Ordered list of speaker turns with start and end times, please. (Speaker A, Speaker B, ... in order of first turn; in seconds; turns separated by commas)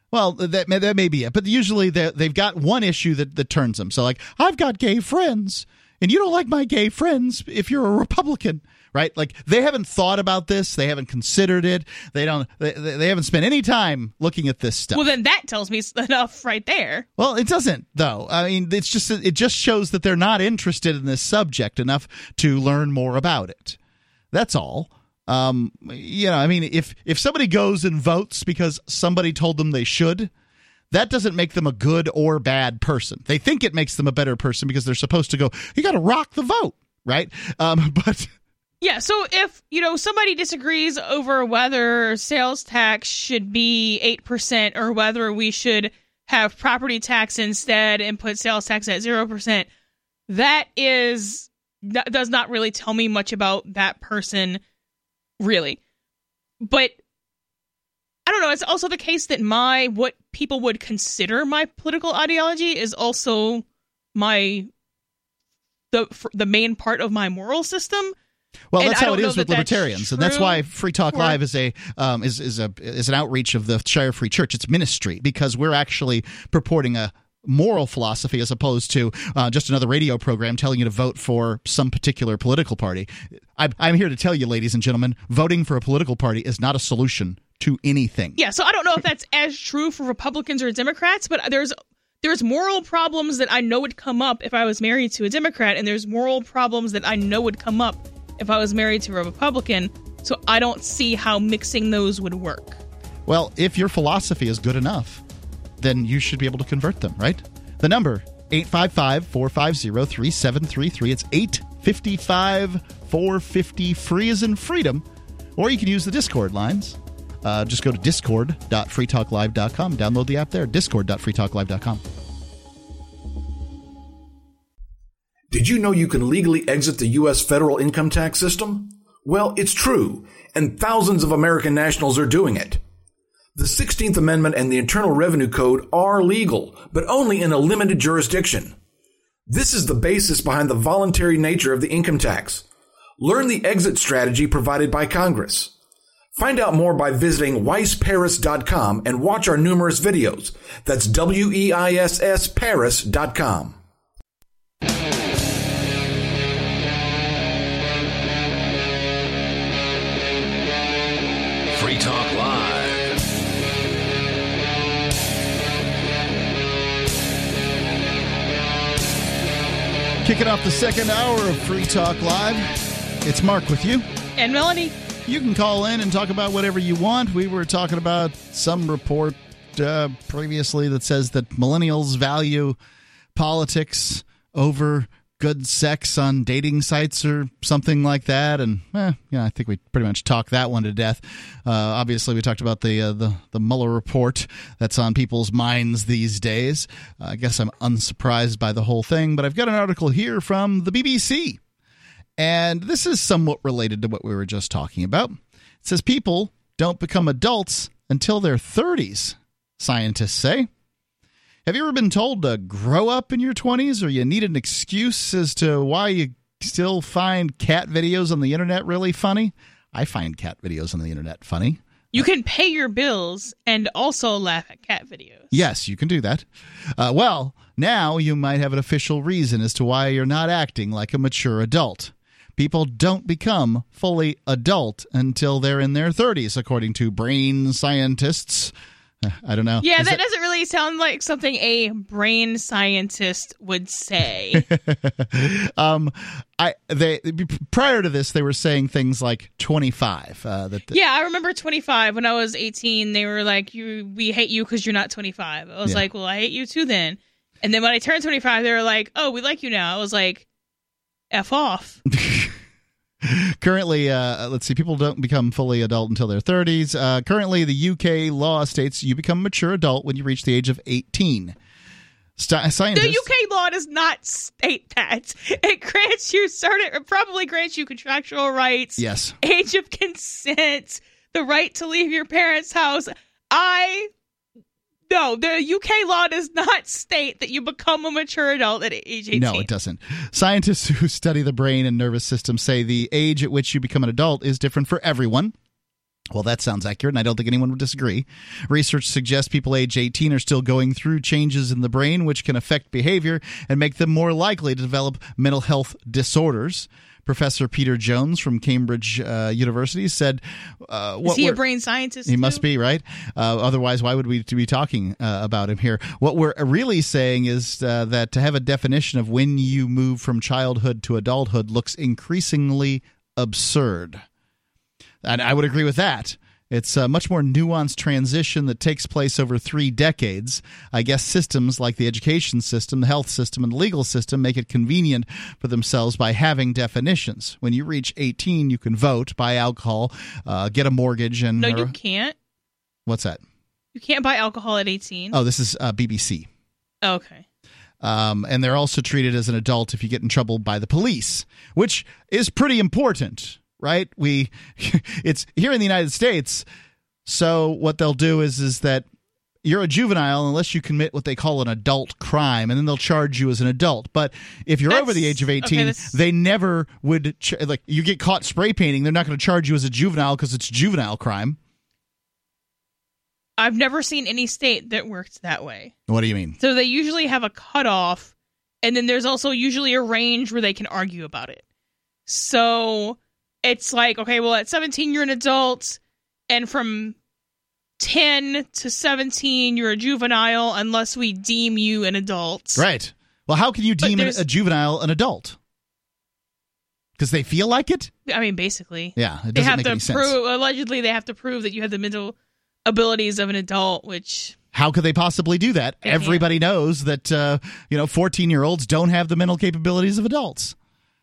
Speaker A: 0.1-15.1, Speaker B: 14.9-17.1, Speaker A: 17.2-23.8, Speaker A: 24.3-30.3, Speaker A: 30.9-38.3, Speaker B: 38.8-49.7, Speaker B: 50.3-54.6, Speaker B: 55.4-55.8, Speaker B: 56.6-57.0, Speaker B: 58.2-64.7, Speaker B: 65.9-68.1, Speaker A: 68.7-88.4, Speaker B: 68.8-71.4, Speaker B: 88.4-102.8, Speaker A: 103.2-105.2, Speaker A: 105.8-115.0, Speaker A: 115.5-122.0, Speaker C: 125.5-132.8, Speaker C: 133.6-138.7, Speaker C: 139.5-142.6, Speaker C: 143.2-145.7, Speaker C: 146.3-153.8, Speaker C: 161.7-163.1, Speaker A: 170.2-172.7, Speaker A: 173.2-174.1, Speaker B: 174.4-174.9, Speaker A: 175.2-182.8, Speaker A: 183.3-201.6, Speaker A: 202.4-210.7, Speaker A: 211.6-222.2, Speaker B: 222.1-225.5, Speaker A: 225.5-240.2, Speaker B: 239.8-244.7, Speaker A: 244.5-251.0, Speaker B: 250.9-260.4, Speaker B: 261.3-262.0, Speaker A: 262.1-262.6, Speaker A: 263.2-271.6, Speaker A: 272.4-273.2, Speaker B: 272.9-284.1, Speaker A: 279.0-279.3, Speaker B: 285.1-289.7, Speaker A: 289.3-295.5, Speaker A: 296.3-311.6, Speaker B: 311.2-312.6, Speaker A: 312.2-324.2, Speaker A: 325.2-341.9, Speaker B: 341.6-342.3, Speaker A: 343.1-343.4, Speaker B: 343.9-345.4, Speaker A: 345.3-346.5, Speaker B: 347.0-347.4, Speaker A: 348.0-356.6, Speaker A: 357.2-359.1, Speaker A: 359.6-371.6, Speaker B: 364.9-366.2, Speaker B: 373.6-375.9, Speaker A: 376.1-376.6, Speaker B: 376.6-381.6, Speaker B: 382.3-387.1, Speaker B: 388.0-392.8, Speaker A: 392.8-395.6, Speaker B: 394.0-394.4, Speaker A: 397.2-398.1, Speaker B: 398.3-402.3, Speaker A: 399.1-400.3, Speaker B: 402.9-404.6, Speaker A: 404.7-410.8, Speaker B: 406.0-406.4